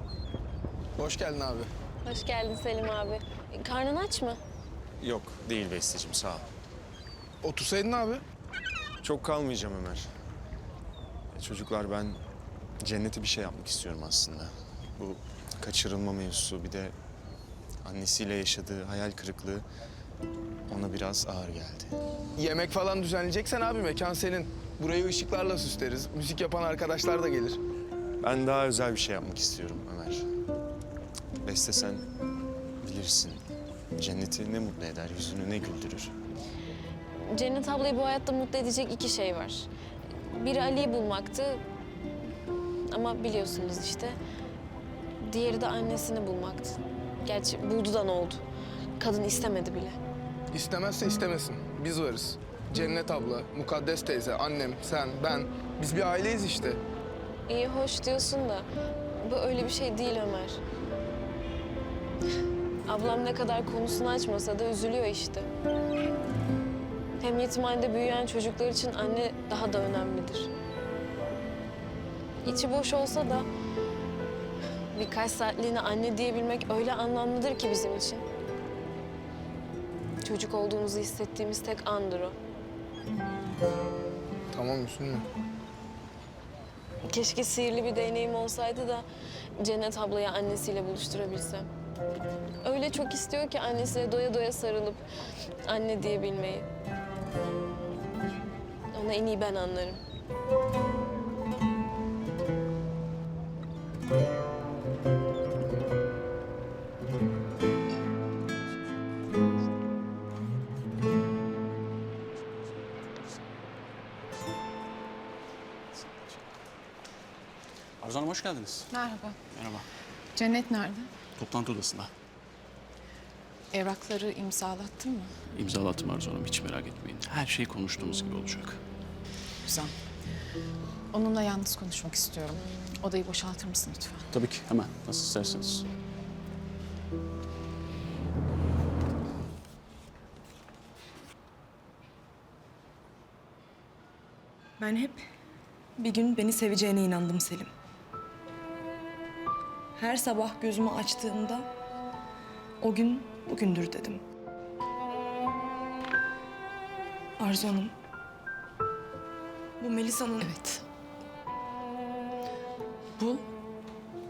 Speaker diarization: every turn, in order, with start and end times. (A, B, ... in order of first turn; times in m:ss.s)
0:01.0-0:01.7 A
0:02.0-0:04.4 B
0:05.0-0:06.5 C
0:07.4-0:08.2 A
0:09.0-0:10.1 C
0:11.3-0:12.2 C
0:12.8-0:16.9 C
0:17.8-0:19.7 C
0:20.7-0:22.0 C
0:22.4-0:27.6 A
0:28.2-0:30.3 C
0:31.4-0:32.0 C
0:32.8-0:33.4 C
0:34.0-0:36.1 C
0:37.2-0:41.6 B
0:42.9-0:44.2 B
0:45.2-0:48.4 B
0:49.0-0:50.0 B
0:50.5-0:56.8 A
0:57.5-0:58.7 B
0:59.2-1:00.6 B
1:02.9-1:05.5 B
1:07.2-1:10.5 B
1:12.4-1:13.5 B
1:14.9-1:18.2 B
1:20.2-1:22.4 B
1:24.5-1:25.2 A
1:27.1-1:29.1 B
1:29.6-1:31.7 B
1:32.6-1:35.0 B
1:35.6-1:36.7 B
1:38.9-1:40.0 B
1:58.0-1:58.9 D
1:58.9-1:59.4 E
1:59.5-1:59.8 D
2:00.4-2:01.1 E
2:01.4-2:02.1 D
2:03.7-2:05.3 E
2:05.5-2:08.8 D
2:09.6-2:09.9 E
2:11.1-2:14.3 E
2:14.3-2:15.8 D
2:24.8-2:25.2 F
2:26.0-2:27.7 F
2:30.0-2:31.7 F
2:32.8-2:34.2 F
2:37.4-2:37.9 F
2:39.8-2:40.5 F
2:40.4-2:40.8 E
2:43.2-2:43.4 E